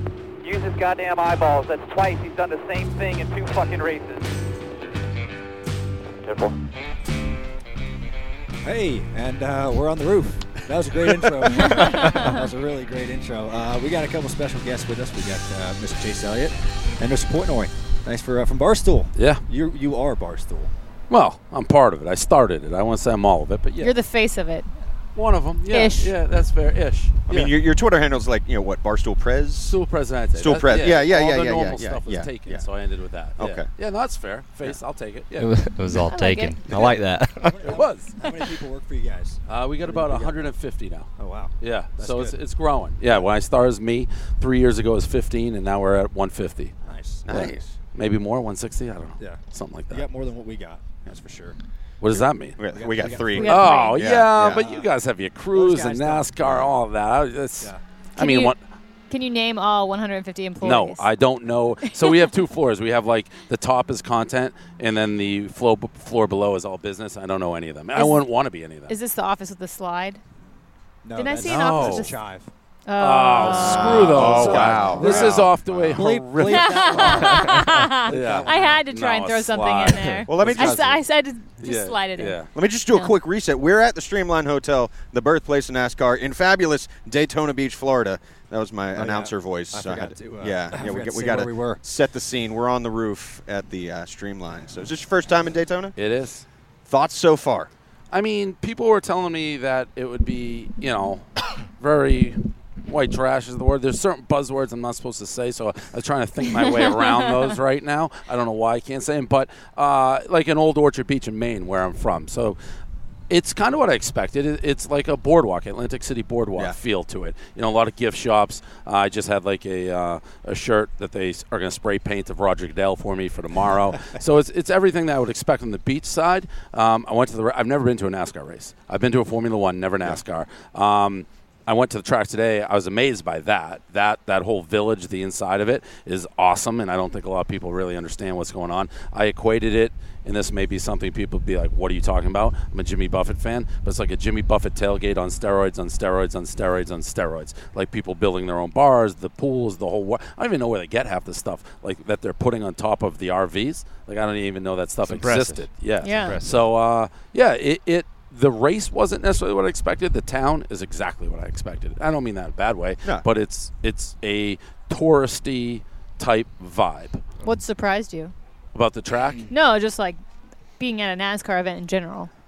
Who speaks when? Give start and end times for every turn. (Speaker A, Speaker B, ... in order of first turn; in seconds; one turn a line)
Speaker A: 0.4-4.3
Speaker A: 6.2-6.6
Speaker B: 8.6-20.7
Speaker C: 19.2-19.4
Speaker C: 21.1-23.9
Speaker D: 23.8-24.7
Speaker C: 25.1-27.5
Speaker D: 25.7-26.1
Speaker E: 27.3-29.8
Speaker C: 29.6-35.6
Speaker E: 30.4-32.6
Speaker E: 33.4-33.7
Speaker F: 35.4-37.6
Speaker D: 36.1-36.7
Speaker B: 37.4-40.5
Speaker C: 37.6-38.2
Speaker C: 39.5-41.1
Speaker B: 41.2-42.4
Speaker C: 41.6-46.7
Speaker B: 46.9-47.6
Speaker E: 47.3-47.7
Speaker C: 47.3-50.1
Speaker B: 49.2-51.6
Speaker C: 52.0-52.6
Speaker E: 52.1-54.7
Speaker B: 52.7-53.8
Speaker D: 53.4-54.0
Speaker C: 53.4-58.6
Speaker B: 54.4-54.9
Speaker B: 55.5-56.8
Speaker D: 58.2-58.5
Speaker D: 59.1-61.1
Speaker C: 60.6-69.0
Speaker D: 61.9-62.3
Speaker D: 68.0-68.2
Speaker D: 68.9-70.2
Speaker B: 71.0-72.5
Speaker D: 71.2-72.2
Speaker C: 71.4-72.1
Speaker D: 72.9-74.9
Speaker C: 73.0-81.0
Speaker B: 73.4-78.8
Speaker E: 73.5-76.0
Speaker D: 76.5-82.4
Speaker E: 80.3-81.0
Speaker C: 81.6-82.5
Speaker E: 82.5-96.0
Speaker B: 89.0-91.8
Speaker C: 96.0-96.5
Speaker E: 96.9-97.7
Speaker C: 98.1-112.6
Speaker C: 113.3-167.4
Speaker F: 155.0-156.6
Speaker D: 156.0-156.4
Speaker D: 167.4-168.3
Speaker C: 168.7-169.5
Speaker D: 169.5-170.2
Speaker D: 170.8-172.3